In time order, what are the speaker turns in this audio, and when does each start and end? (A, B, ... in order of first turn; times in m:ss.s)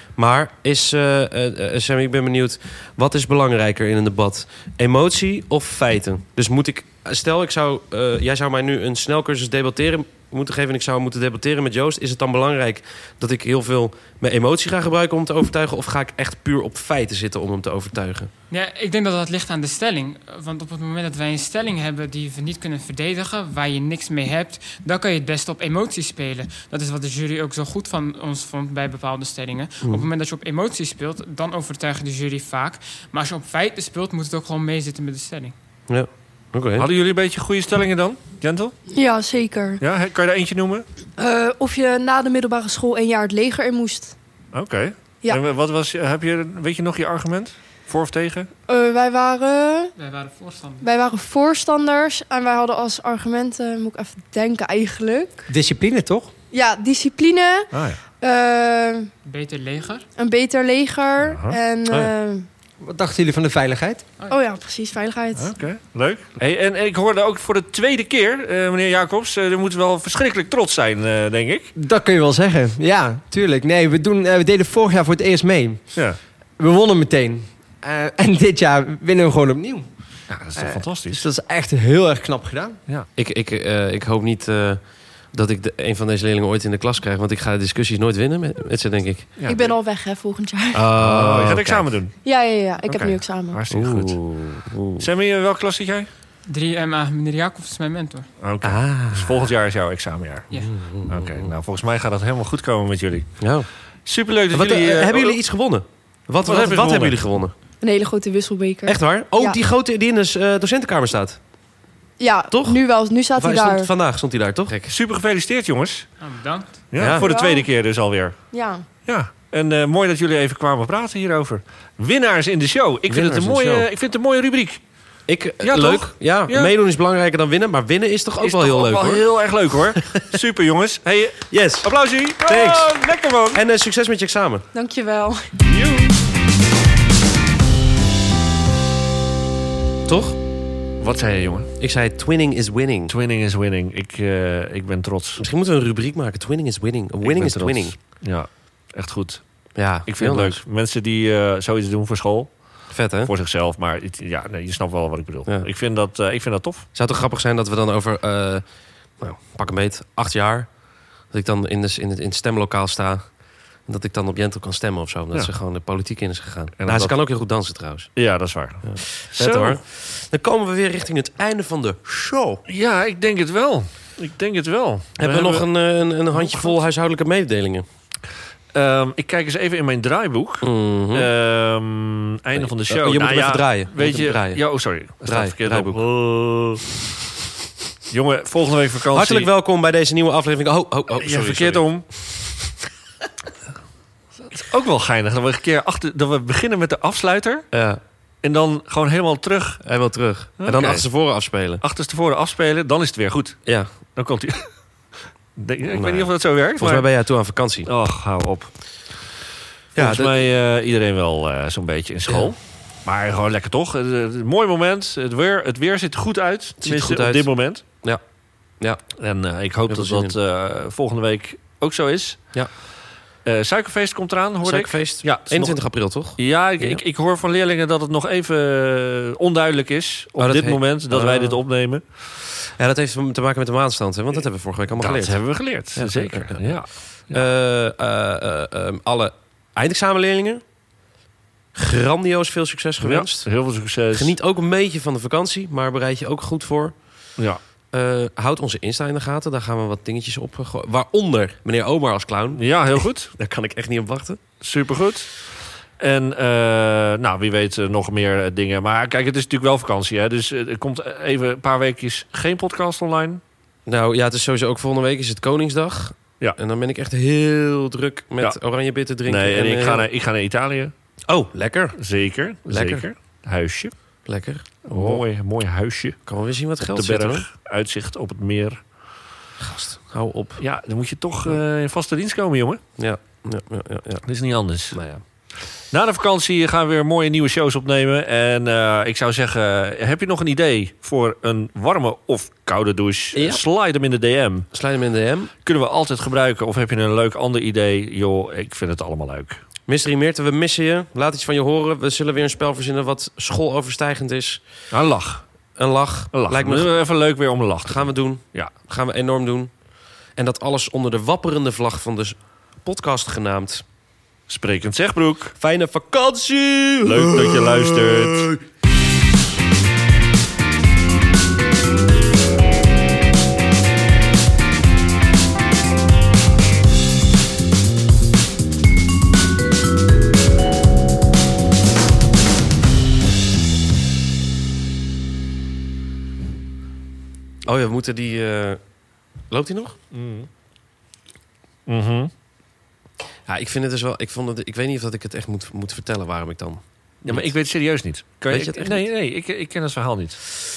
0:00.2-0:18.3 A
0:18.5-0:35.5 B
0:35.9-0:36.9 A
0:36.8-0:38.7 C
0:38.9-0:39.8 D
0:39.8-0:40.8 C
0:41.2-0:44.1 D
0:44.5-0:48.5 C
0:48.7-0:49.9 D
0:50.0-0:50.8 B
0:50.8-0:55.5 D
0:55.5-0:56.3 E
0:56.5-0:59.1 D
0:57.7-0:58.0 C
0:59.2-1:00.0 B
1:00.2-1:02.5 D
1:01.2-1:02.1 C
1:02.8-1:04.1 E
1:04.3-1:05.5 D
1:05.4-1:11.7 C
1:11.8-1:19.8 E
1:20.3-1:21.2 C
1:20.5-1:22.8 E
1:23.1-1:29.3 A
1:29.4-1:29.7 C
1:29.4-1:30.9 D
1:30.7-1:31.9 A
1:31.0-1:32.1 C
1:32.2-1:33.6 D
1:32.8-1:34.2 C
1:33.7-1:35.0 A
1:35.0-1:36.1 C
1:36.5-1:38.3 B
1:38.4-1:40.5 C
1:38.6-1:39.5 A
1:40.5-1:41.5 A
1:41.1-1:43.4 C
1:43.4-1:43.7 A
1:44.0-1:45.4 C
1:44.5-1:47.5 A
1:46.4-1:47.2 C
1:47.8-1:49.6 D
1:48.8-1:51.4 A
1:52.2-1:53.9 D
1:52.5-1:52.8 A
1:53.3-1:54.9 A
1:54.9-1:56.1 C
1:56.2-1:56.8 B
1:56.9-1:58.5 C
1:57.0-1:57.2 A
1:57.1-1:57.7 D
1:58.5-1:58.8 D
1:59.0-2:04.8 C
2:03.1-2:03.9 A
2:05.3-2:09.3 A
2:05.6-2:06.7 C
2:08.4-2:13.6 C
2:10.0-2:10.2 A
2:11.5-2:14.6 A
2:14.7-2:15.5 D
2:15.6-2:16.1 C
2:20.0-2:20.4 A
2:21.0-2:21.7 C
2:21.8-2:23.1 A
2:23.1-2:25.4 C
2:25.4-2:28.0 A
2:27.2-2:36.9 C
2:29.7-2:30.6 A
2:32.9-2:33.3 A
2:36.9-2:38.6 A
2:39.2-2:40.7 A
2:41.3-2:48.3 A
2:46.8-2:47.2 C
2:48.1-2:49.8 C
2:48.8-2:52.6 A
2:52.7-2:55.7 C
2:55.2-2:57.8 A
2:56.3-2:56.7 C
2:58.7-3:06.1 C
3:00.6-3:01.3 A
3:02.6-3:06.9 A
3:08.1-3:09.5 C
3:09.1-3:12.6 A
3:11.2-3:12.1 C
3:14.4-3:17.7 C
3:17.7-3:18.0 A
3:18.4-3:19.8 C
3:19.8-3:21.8 A
3:20.6-3:21.1 C
3:21.8-3:24.9 C
3:25.5-3:27.1 C
3:25.9-3:27.9 A
3:27.8-3:28.8 C
3:29.9-3:30.4 A
3:29.9-3:37.8 C
3:32.3-3:32.5 A
3:36.8-3:38.2 A
3:39.2-3:42.5 C
3:39.9-3:40.4 A
3:43.4-3:52.0 C
3:44.6-3:47.0 A
3:50.4-3:51.6 A
3:52.6-4:00.6 A
3:55.0-3:57.4 C
4:01.7-4:03.5 A
4:03.0-4:04.3 C
4:04.1-4:07.0 A
4:07.9-4:14.4 A
4:12.5-4:13.3 C
4:14.6-4:15.3 C
4:16.0-4:23.4 C
4:23.8-4:30.0 A
4:29.2-4:30.9 C
4:31.3-4:32.0 A
4:32.0-4:33.9 C
4:32.7-4:33.0 A
4:34.2-4:35.2 A
4:34.8-4:36.2 C
4:36.2-4:37.4 A
4:36.9-4:38.8 C
4:39.6-4:40.6 A
4:40.6-4:42.8 C
4:43.0-4:44.2 A
4:44.2-4:45.0 C
4:44.9-4:45.2 A
4:45.9-4:54.7 C
4:53.3-4:53.6 A
4:54.7-4:55.5 A
4:55.6-4:59.6 C
4:59.9-5:04.6 A
5:04.9-5:05.4 C
5:05.8-5:06.9 A
5:06.3-5:08.7 C
5:07.8-5:09.8 A
5:10.3-5:13.8 A
5:14.5-5:15.5 C
5:15.6-5:18.6 A
5:17.0-5:18.5 C
5:37.6-5:38.8 A
5:39.5-5:40.0 A
5:40.1-5:40.5 C
5:41.9-5:42.3 C
5:43.4-5:47.5 A
5:47.2-5:50.4 C
5:48.5-5:49.1 A